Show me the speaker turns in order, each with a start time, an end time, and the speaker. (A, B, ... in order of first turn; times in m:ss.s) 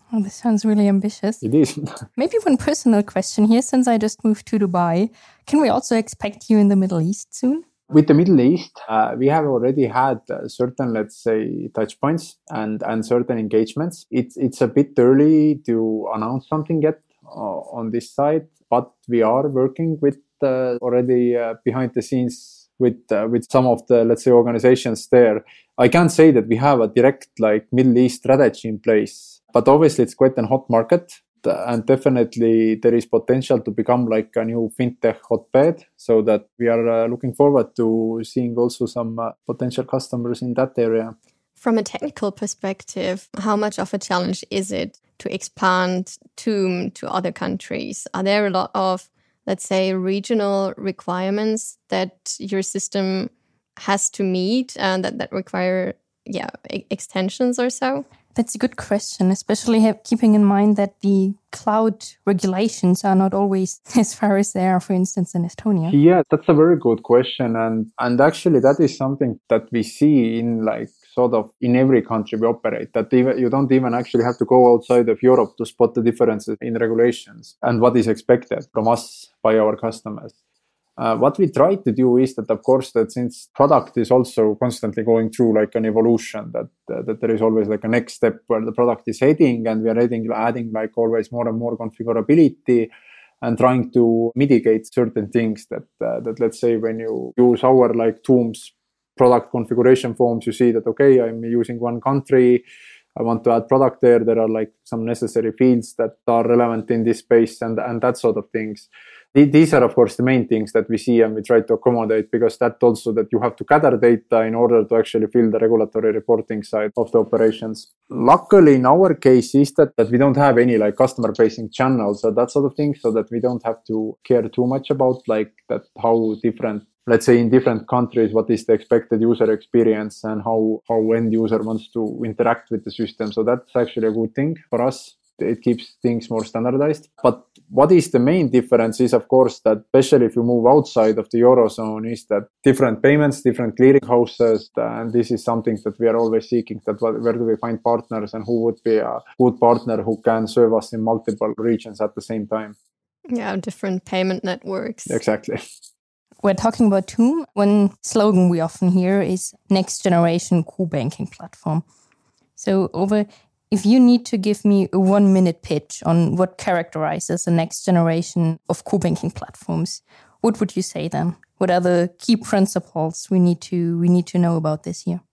0:00.1-0:01.4 A
0:01.4-0:02.0 B
0:02.2-0:07.6 A
0:07.9-0:41.2 B
0:41.6-0:58.0 C
0:58.4-1:06.0 A
1:05.9-1:20.4 B
1:21.0-1:32.9 B
1:33.4-1:42.6 B
1:43.2-2:32.8 B
2:33.3-2:35.2 C
2:35.1-2:35.6 B
2:36.4-2:41.8 A
2:42.6-2:55.2 A